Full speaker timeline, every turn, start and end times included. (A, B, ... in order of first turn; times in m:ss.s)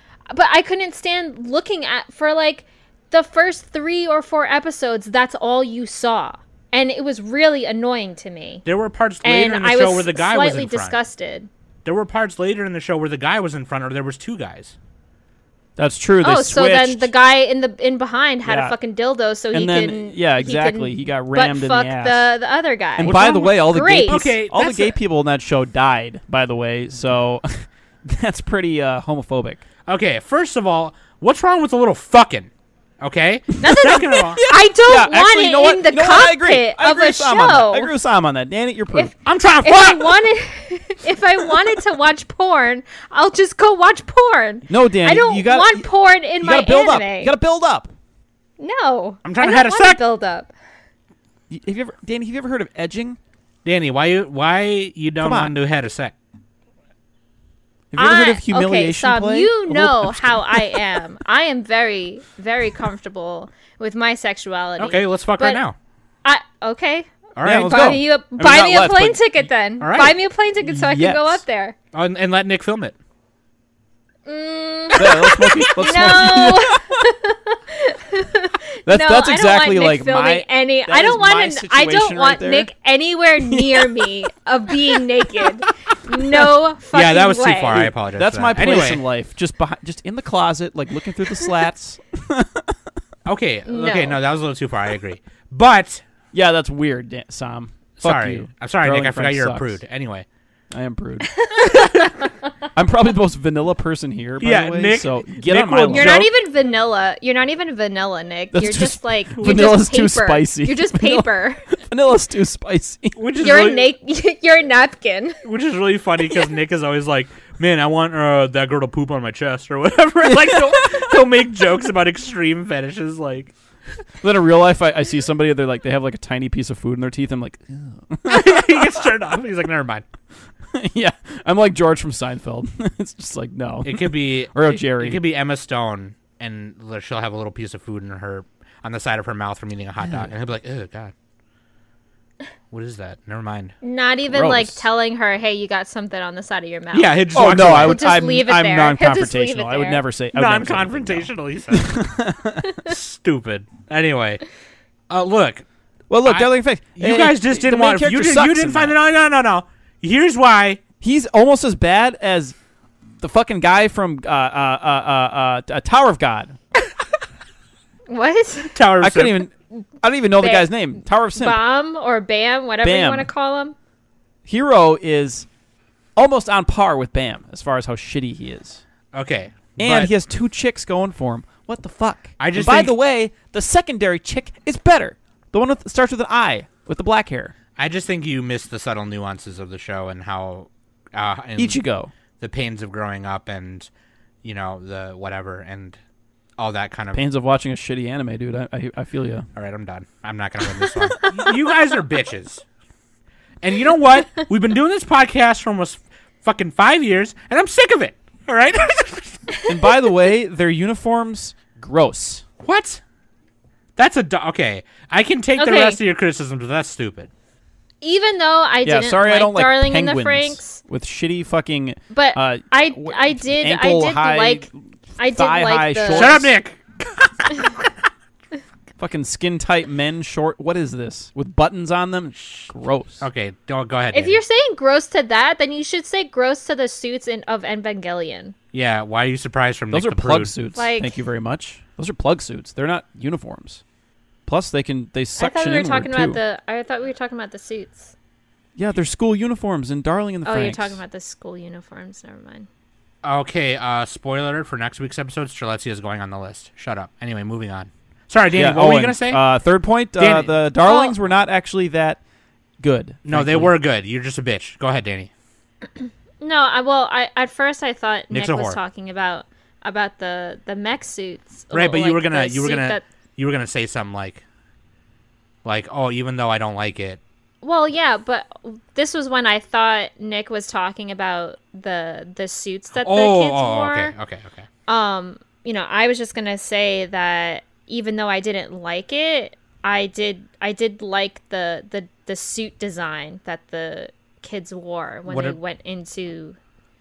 0:00.3-0:08.6 A
0:08.6-0:11.0 B
0:09.2-0:11.5 A
0:11.8-0:14.8 B
0:15.8-0:17.1 C
0:16.2-0:24.3 A
0:18.4-0:18.7 C
0:19.5-0:22.3 C
0:23.0-0:29.6 C
0:24.1-0:25.0 B
0:29.9-0:32.5 B
0:33.0-0:34.4 B
0:33.6-0:37.9 A
0:34.1-0:39.1 C
0:39.2-0:40.2 B
0:39.6-0:47.3 A
0:44.7-0:45.9 C
0:46.4-0:47.9 C
0:48.6-0:50.5 A
0:49.2-0:50.0 B
0:51.5-0:53.2 C
0:53.6-0:56.1 B
0:55.2-0:55.5 C
0:57.9-1:00.8 C
0:58.0-1:05.6 A
1:04.8-1:05.8 B
1:06.2-1:11.8 A
1:07.4-1:08.0 B
1:07.4-1:09.2 C
1:09.8-1:10.1 B
1:10.6-1:11.4 C
1:11.9-1:12.9 B
1:14.2-1:27.9 A
1:15.0-1:17.0 C
1:18.8-1:22.7 C
1:23.4-1:24.0 C
1:26.9-1:29.0 B
1:27.7-1:32.7 C
1:33.2-1:36.0 B
1:33.6-1:34.2 A
1:36.3-1:39.8 C
1:38.0-1:40.2 B
1:40.7-1:41.4 C
1:41.3-1:41.8 A
1:41.7-1:42.1 B
1:42.7-1:46.3 C
1:44.4-1:46.3 B
1:45.9-1:51.6 A
1:48.5-1:53.3 C
1:49.4-1:49.6 B
1:53.2-1:53.9 B
1:53.4-1:55.4 A
1:55.4-2:03.5 B
2:00.4-2:00.9 C
2:04.2-2:09.0 C
2:08.2-2:10.0 B
2:10.7-2:15.2 C
2:13.8-2:21.1 B
2:20.0-2:20.3 C
2:22.7-2:23.7 B
2:23.8-2:30.0 A
2:24.3-2:24.8 C
2:26.9-2:28.1 B
2:27.3-2:32.8 C
2:30.3-2:32.1 B
2:32.8-2:34.4 B
2:35.1-2:35.6 B
2:36.1-2:38.9 C
2:36.2-2:40.8 B
2:41.0-2:42.5 C
2:43.2-2:46.6 C
2:48.1-2:48.8 A
2:48.7-2:49.4 B
2:49.0-2:51.6 C
2:50.4-2:50.7 A
2:51.4-2:53.7 A
2:52.8-2:53.3 C
2:54.4-2:55.4 C
2:56.2-2:58.8 C
2:59.1-3:00.1 B
2:59.8-3:07.5 C
3:02.4-3:02.9 B
3:07.8-3:11.8 B
3:11.6-3:12.1 C
3:12.4-3:13.9 B
3:14.4-3:16.0 B
3:16.6-3:17.2 B
3:17.1-3:19.5 C
3:19.5-3:22.6 B
3:23.6-3:29.4 B
3:29.7-3:32.4 C
3:32.6-3:33.0 B
3:34.0-3:37.3 B
3:35.6-3:36.0 A
3:38.0-3:40.8 A
3:38.8-3:46.5 C
3:42.1-3:44.7 A
3:45.2-3:46.4 A
3:46.1-3:47.9 B
3:49.0-3:53.2 C
3:53.2-3:54.4 B
3:54.1-3:58.5 A
3:58.7-4:00.5 B
3:59.9-4:03.8 C
4:00.8-4:01.2 A
4:04.5-4:06.4 C
4:05.4-4:08.1 A
4:08.8-4:11.0 C
4:10.4-4:12.7 A
4:13.2-4:19.4 B
4:18.5-4:22.2 C
4:20.2-4:20.6 B
4:20.8-4:21.1 A
4:22.8-4:23.7 C
4:23.2-4:25.3 B
4:26.4-4:33.0 A
4:28.3-4:28.8 B
4:31.7-4:34.4 B
4:35.6-4:37.2 B
4:37.6-4:44.2 A
4:43.0-4:44.7 B
4:44.9-4:56.6 A
4:55.3-4:55.6 B